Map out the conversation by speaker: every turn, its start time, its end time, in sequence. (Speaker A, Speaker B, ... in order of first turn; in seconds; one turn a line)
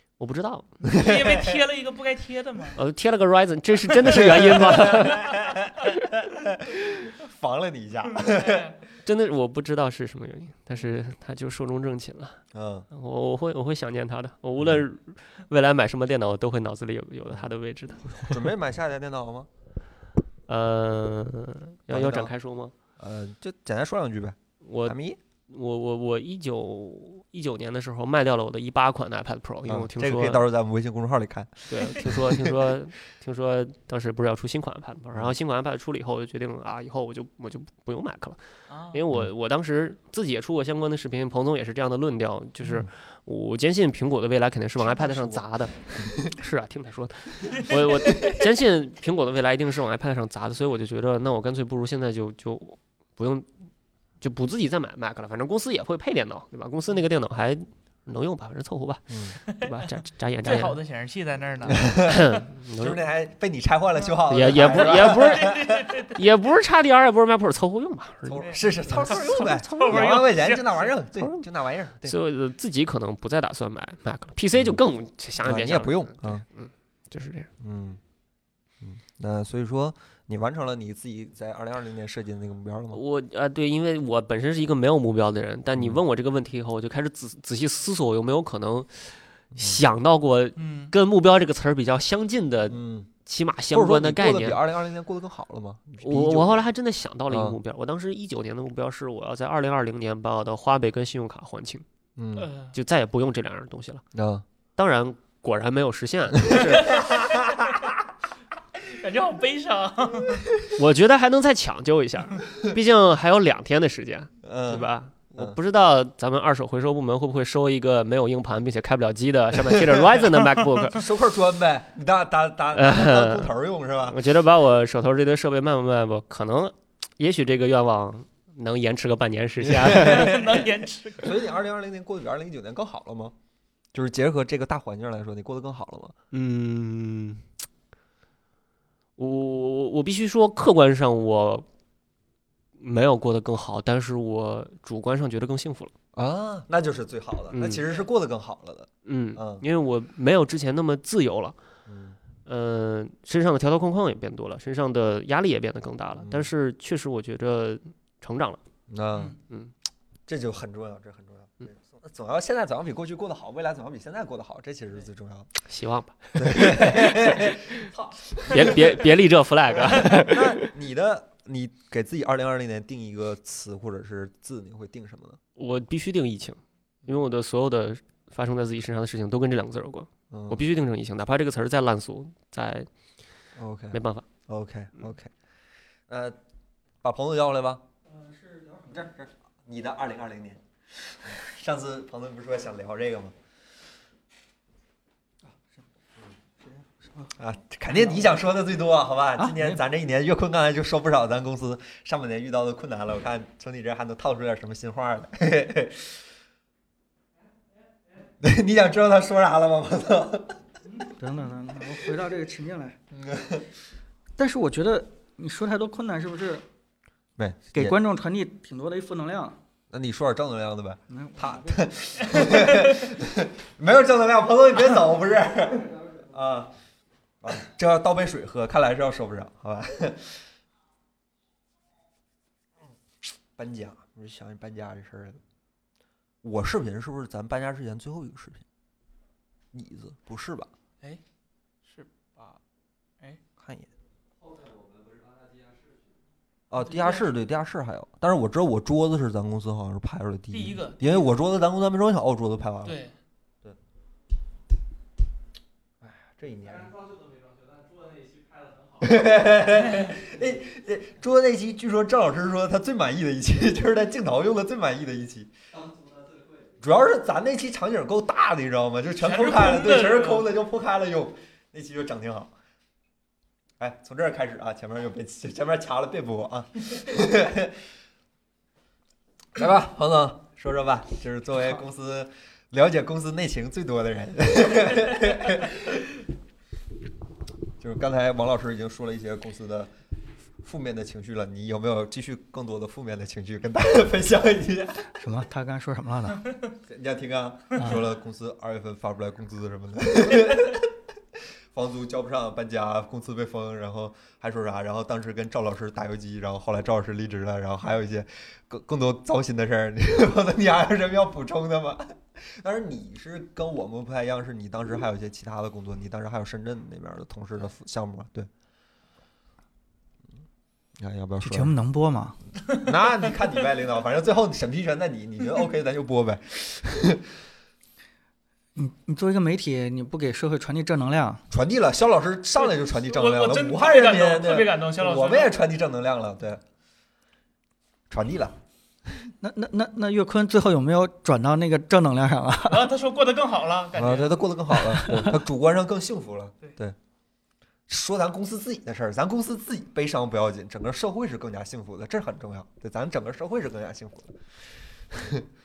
Speaker A: 0.2-0.7
Speaker B: 0.8-2.8
Speaker C: 0.8-1.6
Speaker A: 2.8-5.3
Speaker C: 3.9-8.7
Speaker B: 4.7-5.0
Speaker B: 8.2-8.8
Speaker A: 9.0-18.4
Speaker C: 12.5-12.9
Speaker C: 14.6-14.8
Speaker C: 18.1-19.5
Speaker A: 20.5-22.7
Speaker C: 21.9-22.3
Speaker C: 23.0-25.2
Speaker A: 24.6-25.0
Speaker A: 25.5-30.4
Speaker C: 29.6-32.7
Speaker A: 31.7-38.4
Speaker B: 38.7-39.0
Speaker A: 38.9-53.5
Speaker C: 45.0-45.4
Speaker A: 54.2-60.8
Speaker C: 59.1-59.4
Speaker B: 60.4-62.1
Speaker C: 61.7-62.2
Speaker A: 61.7-63.0
Speaker C: 62.8-65.9
Speaker B: 64.0-66.2
Speaker A: 64.3-65.6
Speaker A: 66.1-70.2
Speaker C: 68.2-72.2
Speaker B: 68.4-71.0
Speaker A: 71.2-71.5
Speaker A: 72.0-77.5
Speaker C: 75.4-76.4
Speaker C: 77.6-78.0
Speaker C: 78.8-83.0
Speaker A: 82.9-94.6
Speaker C: 89.5-89.8
Speaker B: 90.6-90.9
Speaker C: 92.7-93.1
Speaker C: 93.7-96.7
Speaker A: 96.0-101.8
Speaker C: 97.3-97.6
Speaker C: 102.2-102.5
Speaker B: 102.4-102.8
Speaker A: 102.7-104.0
Speaker C: 104.1-104.5
Speaker A: 104.8-107.0
Speaker C: 106.5-107.6
Speaker B: 106.5-107.3
Speaker B: 108.8-110.5
Speaker A: 110.7-121.1
Speaker C: 114.4-115.6
Speaker C: 119.7-120.1
Speaker C: 120.9-124.2
Speaker A: 122.7-123.5
Speaker A: 124.0-130.5
Speaker C: 129.6-133.3
Speaker B: 129.9-131.4
Speaker C: 133.9-136.2
Speaker A: 136.3-137.4
Speaker A: 139.2-141.7
Speaker A: 142.8-145.9
Speaker C: 146.1-149.7
Speaker A: 147.5-147.9
Speaker A: 149.1-151.6
Speaker C: 151.9-152.2
Speaker A: 152.5-158.6
Speaker C: 156.2-156.5
Speaker C: 158.9-159.4
Speaker C: 160.3-165.5
Speaker A: 165.6-167.9
Speaker C: 166.3-169.2
Speaker A: 168.4-170.7
Speaker C: 169.7-175.4
Speaker A: 175.6-182.9
Speaker C: 180.3-180.6
Speaker C: 183.6-185.3
Speaker A: 183.9-184.3
Speaker C: 186.1-186.4
Speaker C: 187.0-187.8
Speaker D: 188.1-189.1
Speaker C: 189.2-190.6
Speaker C: 191.1-193.3
Speaker D: 196.7-197.3
Speaker C: 197.4-206.2
Speaker D: 199.4-199.8
Speaker C: 208.4-210.6
Speaker D: 211.1-213.0
Speaker C: 213.1-213.6
Speaker D: 214.4-216.7
Speaker C: 217.4-218.0
Speaker D: 217.7-219.6
Speaker C: 219.9-226.7
Speaker D: 221.1-221.9
Speaker C: 227.4-230.4
Speaker C: 233.6-235.4
Speaker C: 236.4-238.6
Speaker C: 239.7-240.7
Speaker C: 243.6-243.9
Speaker C: 246.7-253.0
Speaker B: 246.8-247.3
Speaker B: 250.5-251.3
Speaker B: 252.8-253.2
Speaker C: 256.0-257.0
Speaker C: 259.0-265.5
Speaker C: 266.8-272.5
Speaker B: 269.2-270.5
Speaker C: 273.8-277.8
Speaker C: 279.6-286.1
Speaker C: 287.8-289.9
Speaker C: 290.6-295.2
Speaker D: 295.2-296.5
Speaker C: 296.9-301.0
Speaker D: 297.8-298.0
Speaker C: 301.7-318.5
Speaker C: 321.0-321.7
Speaker D: 321.4-322.4
Speaker C: 322.7-327.3
Speaker D: 328.8-331.4
Speaker C: 331.5-336.6
Speaker B: 332.9-335.6
Speaker C: 338.1-338.6
Speaker D: 339.4-342.9
Speaker B: 342.7-344.4
Speaker C: 343.9-347.0
Speaker D: 344.9-345.4
Speaker C: 347.9-354.4
Speaker C: 355.1-355.4